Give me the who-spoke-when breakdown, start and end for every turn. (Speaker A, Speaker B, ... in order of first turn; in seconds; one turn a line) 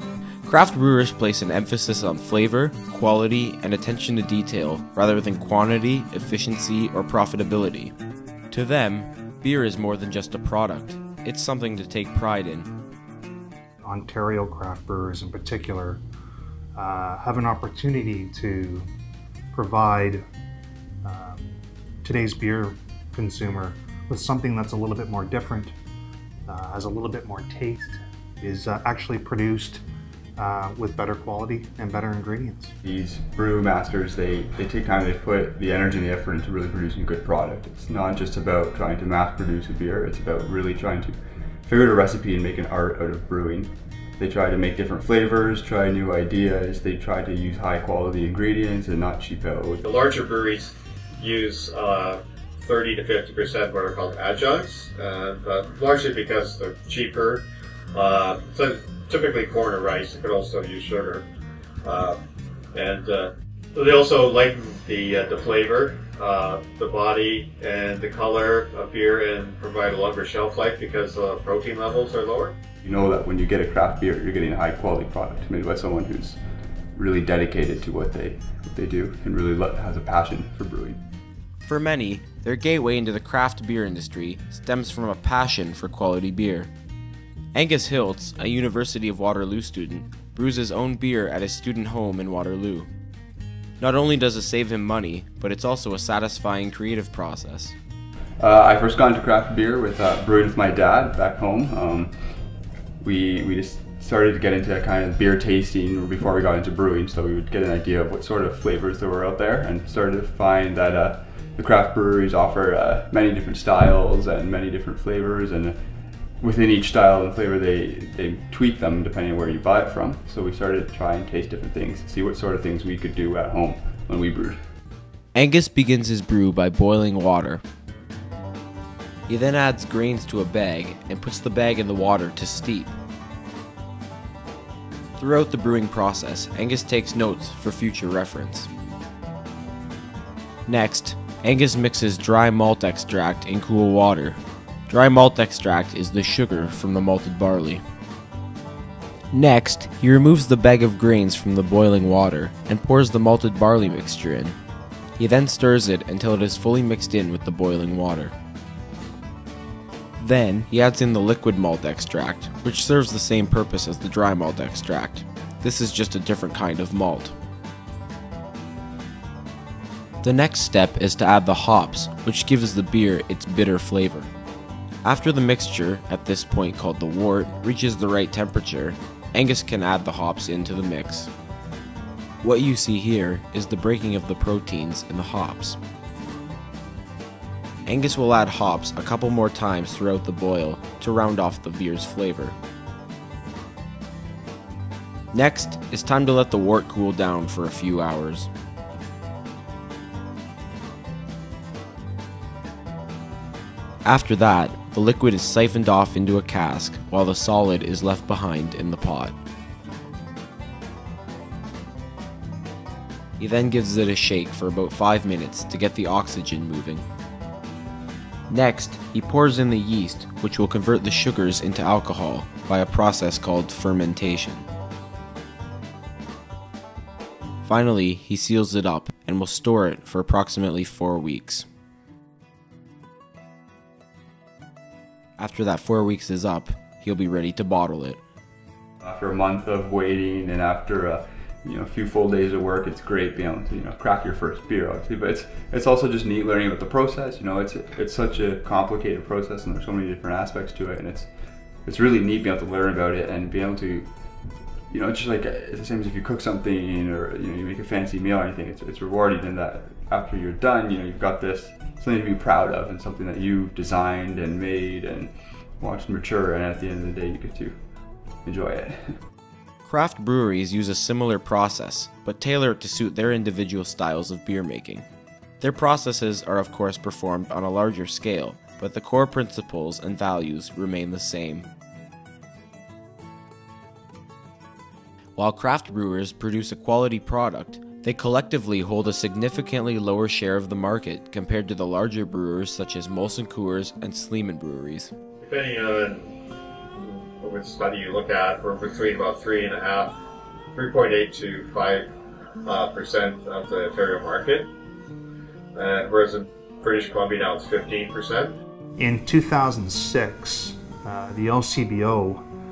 Speaker A: 0.4-7.9
Speaker A: 8.5-12.7
Speaker B: 13.8-16.0
Speaker B: 16.8-18.9
Speaker B: 19.5-20.2
Speaker B: 21.0-25.7
Speaker B: 26.5-29.8
Speaker B: 30.4-32.7
Speaker C: 32.8-49.8
Speaker D: 49.8-61.3
Speaker D: 61.8-62.2
Speaker D: 62.7-72.6
Speaker C: 72.8-76.4
Speaker C: 77.0-81.0
Speaker A: 81.6-86.7
Speaker A: 87.5-92.9
Speaker A: 93.8-97.8
Speaker C: 98.4-102.1
Speaker C: 103.0-115.8
Speaker C: 116.4-124.6
Speaker A: 125.3-127.6
Speaker A: 129.3-132.9
Speaker A: 135.2-138.7
Speaker A: 140.7-147.8
Speaker A: 149.3-154.6
Speaker A: 155.2-158.3
Speaker A: 160.2-167.3
Speaker A: 170.2-174.3
Speaker A: 175.0-181.3
Speaker A: 182.4-185.8
Speaker A: 187.9-192.6
Speaker A: 195.3-198.5
Speaker A: 204.0-209.4
Speaker A: 213.4-217.0
Speaker A: 218.5-224.7
Speaker A: 227.7-231.7
Speaker A: 235.4-238.2
Speaker C: 239.0-251.3
Speaker C: 251.8-254.1
Speaker C: 254.9-267.8
Speaker C: 268.4-269.2
Speaker A: 269.8-275.1
Speaker A: 275.6-281.7
Speaker A: 285.4-295.1
Speaker D: 295.4-296.3
Speaker D: 296.9-300.1
Speaker D: 300.7-302.1
Speaker D: 302.6-304.7
Speaker D: 305.7-308.5
Speaker B: 309.0-312.4